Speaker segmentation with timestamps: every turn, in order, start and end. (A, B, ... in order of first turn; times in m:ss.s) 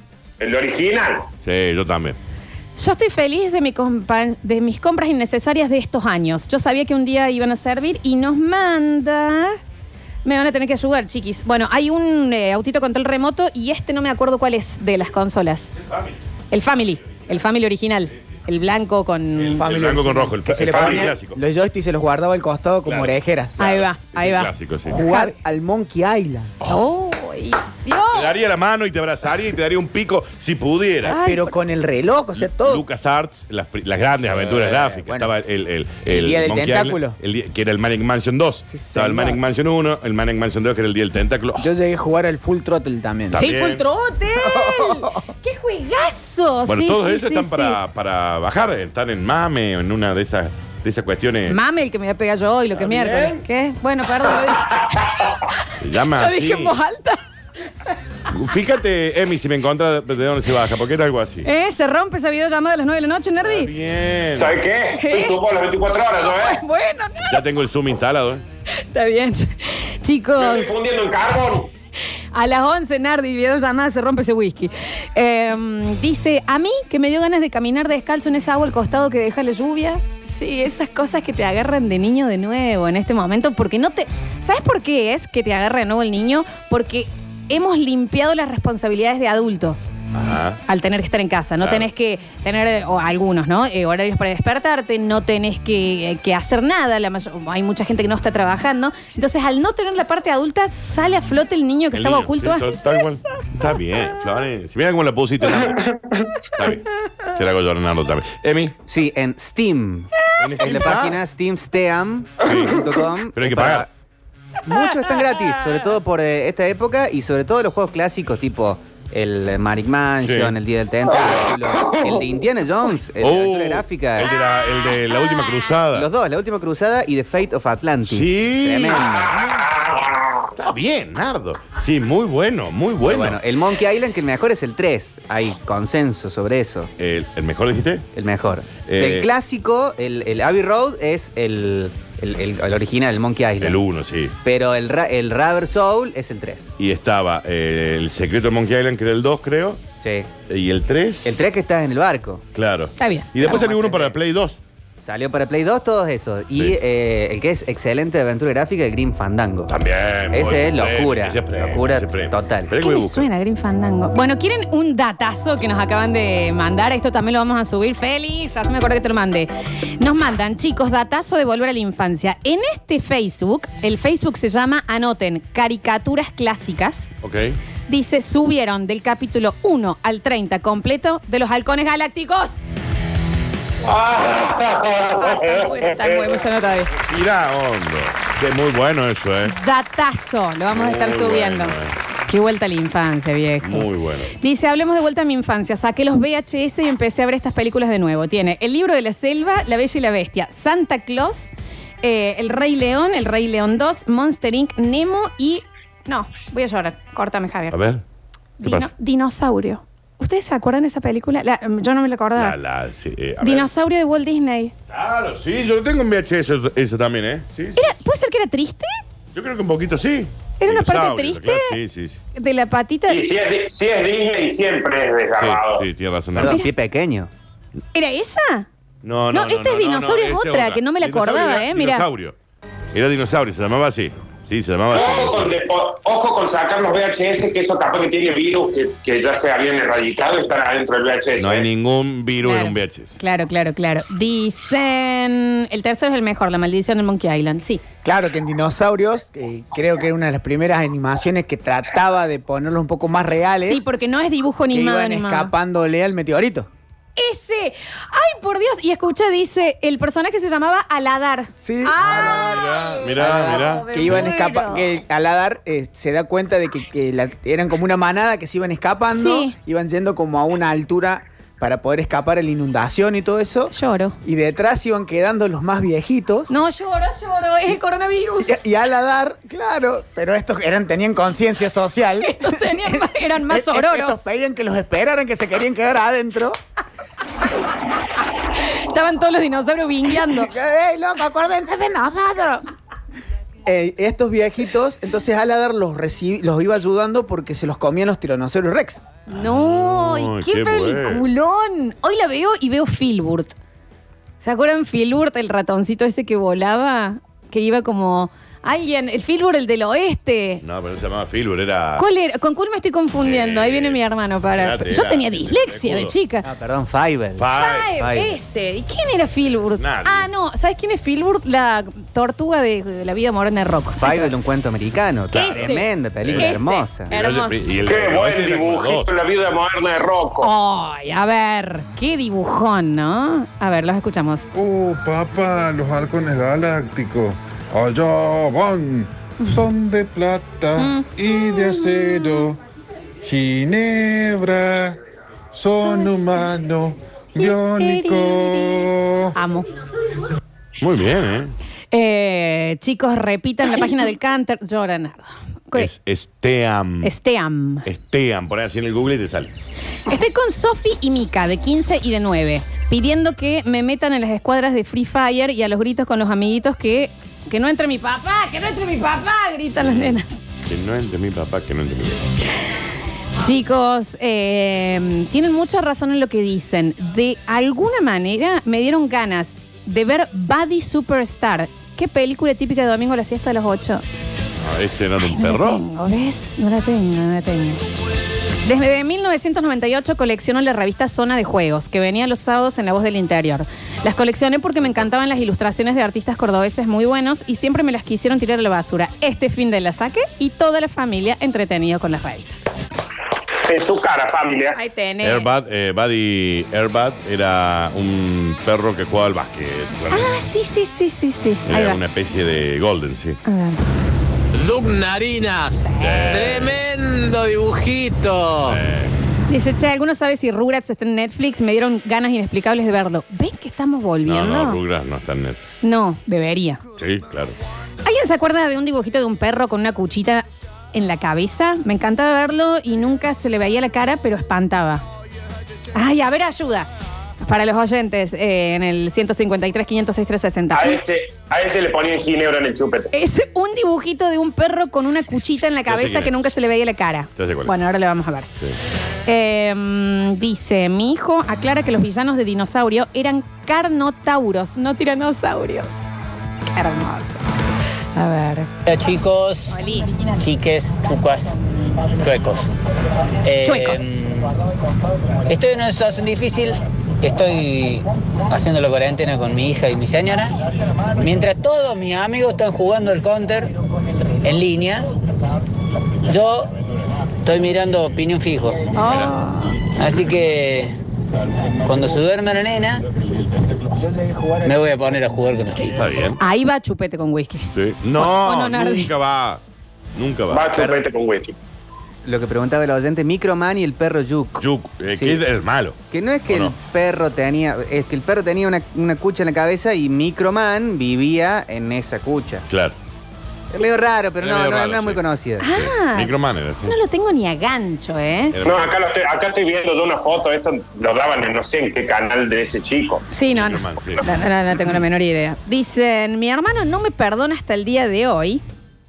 0:00.4-0:01.3 A
0:01.4-0:02.2 B
0:02.8-0:09.6 C
0:10.2-0:15.7 C
0:16.5-0:19.6 C
0:19.4-0:21.4 B
0:19.6-0:23.6 D
0:20.7-0:21.1 A
0:22.8-0:25.0 B
0:23.6-0:25.3 C
0:24.9-0:26.5 D
0:26.6-0:28.3 C
0:28.1-0:31.2 B
0:31.0-0:32.8 D
0:31.1-0:31.5 C
0:32.4-0:41.7 B
0:34.6-0:35.3 D
0:36.0-0:37.2 D
0:38.7-0:39.4 D
0:41.6-0:43.4 D
0:43.3-0:43.8 B
0:43.4-0:47.8 C
0:44.4-0:45.2 D
0:46.6-0:51.6 B
0:51.5-0:55.0 C
0:52.8-0:53.4 B
0:54.8-0:55.3 A
0:55.8-0:56.8 B
0:56.1-0:57.2 C
0:58.3-1:01.5 B
1:01.4-1:03.7 C
1:03.4-1:04.6 B
1:04.3-1:06.6 A
1:04.9-1:05.4 C
1:06.2-1:07.4 C
1:07.3-1:08.4 B
1:08.9-1:10.7 C
1:10.4-1:11.7 A
1:12.3-1:29.8 C
1:30.1-1:30.6 B
1:30.7-1:42.8 C
1:31.6-1:31.9 B
1:41.9-1:45.8 B
1:46.6-1:48.8 B
1:48.9-1:53.9 E
1:50.4-1:51.2 B
1:52.4-1:53.9 B
1:54.6-2:04.3 E
2:00.2-2:00.6 B
2:03.2-2:06.1 B
2:05.9-2:09.5 E
2:08.0-2:09.1 B
2:09.1-2:10.5 A
2:10.6-2:13.4 B
2:13.0-2:16.9 E
2:17.0-2:18.1 B
2:18.1-2:23.8 E
2:18.8-2:19.3 B
2:23.6-2:24.3 B
2:24.4-2:26.7 E
2:26.8-2:29.8 B
2:30.0-2:30.3 E
2:30.5-2:31.4 B
2:31.2-2:32.4 E
2:32.5-2:34.6 B
2:33.0-2:33.6 C
2:33.4-2:34.1 E
2:35.0-2:39.7 E
2:39.7-2:43.3 B
2:40.3-2:42.7 E
2:42.8-2:57.1 C
2:57.2-2:57.6 B
2:57.9-3:02.6 C
3:03.8-3:06.4 A
3:05.1-3:06.9 C
3:07.1-3:09.6 B
3:09.5-3:11.8 C
3:10.7-3:11.9 B
3:12.3-3:21.5 C
3:13.6-3:14.3 B
3:22.0-3:27.8 C
3:27.7-3:28.0 B
3:28.6-3:32.6 C
3:28.6-3:28.9 B
3:32.4-3:33.7 B
3:33.4-3:34.7 C
3:34.9-3:37.9 B
3:37.8-3:38.9 C
3:39.3-3:42.2 B
3:40.6-3:41.8 C
3:42.3-3:43.2 C
3:43.1-3:45.8 A
3:45.4-3:46.6 B
3:46.3-3:47.3 E
3:47.9-3:48.7 C
3:49.0-3:52.3 B
3:49.3-3:52.0 C
3:52.9-3:55.6 B
3:54.9-4:01.7 A
4:01.4-4:03.2 B
4:02.4-4:07.8 C
4:08.0-4:13.8 D
4:13.4-4:15.5 C
4:14.7-4:16.7 D
4:17.2-4:24.9 C
4:21.6-4:36.5 D
4:22.0-4:24.3 B
4:29.1-4:29.5 C
4:33.7-4:34.2 C
4:36.5-4:38.6 C
4:38.4-4:46.6 D
4:42.2-4:44.2 C
4:48.6-4:50.5 C
4:50.2-4:52.6 D
4:53.6-4:59.0 D
4:59.3-5:03.5 C
4:59.3-5:01.2 B
5:04.4-5:10.6 C
5:10.6-5:12.1 B
5:12.0-5:16.4 C
5:13.2-5:14.0 B
5:14.5-5:16.1 B
5:16.4-5:17.5 E
5:17.4-5:18.0 B
5:17.5-5:24.3 C
5:18.0-5:18.4 E
5:19.8-5:20.3 B
5:24.0-5:27.1 E
5:25.3-5:27.6 C
5:25.4-5:26.6 B
5:27.1-5:29.1 B
5:27.8-5:30.5 A
5:30.4-5:34.5 C
5:34.5-5:42.6 F
5:40.8-5:42.5 C
5:43.2-5:45.0 F
5:45.5-5:49.3 F
5:45.8-5:46.1 C
5:47.4-5:49.7 C
5:50.8-5:51.5 B
5:51.9-5:55.9 C
5:55.7-5:57.1 B
5:57.0-5:57.8 C
5:57.8-5:59.5 B
6:00.1-6:10.4 C
6:09.8-6:12.3 B
6:13.4-6:24.0 C
6:24.6-6:25.8 B
6:25.2-6:27.8 C
6:28.6-6:42.7 C
6:43.6-6:44.8 A
6:44.7-6:45.5 C
6:45.2-6:50.3 B
6:50.1-6:52.0 C
6:51.6-6:53.4 B
6:53.4-6:53.8 C
6:54.5-6:58.8 G
6:55.8-6:56.4 C
6:56.0-6:56.8 B
6:58.7-6:59.1 B
6:59.5-7:04.8 C
7:04.2-7:05.7 B
7:05.8-7:06.8 C
7:07.0-7:07.5 B
7:08.0-7:15.0 C
7:15.9-7:21.0 C
7:20.7-7:23.1 A
7:23.1-7:28.5 C
7:25.9-7:26.5 B
7:27.4-7:27.7 B
7:29.3-7:36.0 C
7:36.8-7:37.4 C
7:38.1-7:38.7 C
7:38.8-7:39.8 H
7:39.7-7:40.3 C
7:40.4-7:41.6 H
7:42.2-7:42.7 H
7:43.4-7:44.6 H
7:43.6-7:44.0 C
7:45.5-7:50.5 H
7:51.1-7:53.7 H
7:54.4-7:55.0 H
7:56.2-7:56.7 H
7:57.4-7:58.9 H
7:58.9-7:59.8 C
7:59.1-7:59.3 B
8:00.0-8:00.9 H
8:01.8-8:03.0 H
8:04.0-8:04.7 D
8:04.6-8:06.0 H
8:05.9-8:06.4 B
8:06.4-8:09.1 C
8:07.7-8:09.6 B
8:10.1-8:10.8 B
8:10.5-8:11.5 A
8:10.8-8:11.0 E
8:12.2-8:14.6 E
8:14.6-8:16.0 B
8:15.1-8:15.4 E
8:16.1-8:22.6 E
8:16.5-8:16.7 B
8:22.7-8:22.9 B
8:23.7-8:25.7 E
8:24.4-8:26.9 B
8:25.6-8:28.6 C
8:28.5-8:28.9 B
8:28.6-8:33.2 A
8:33.3-8:38.6 C
8:33.5-8:34.2 B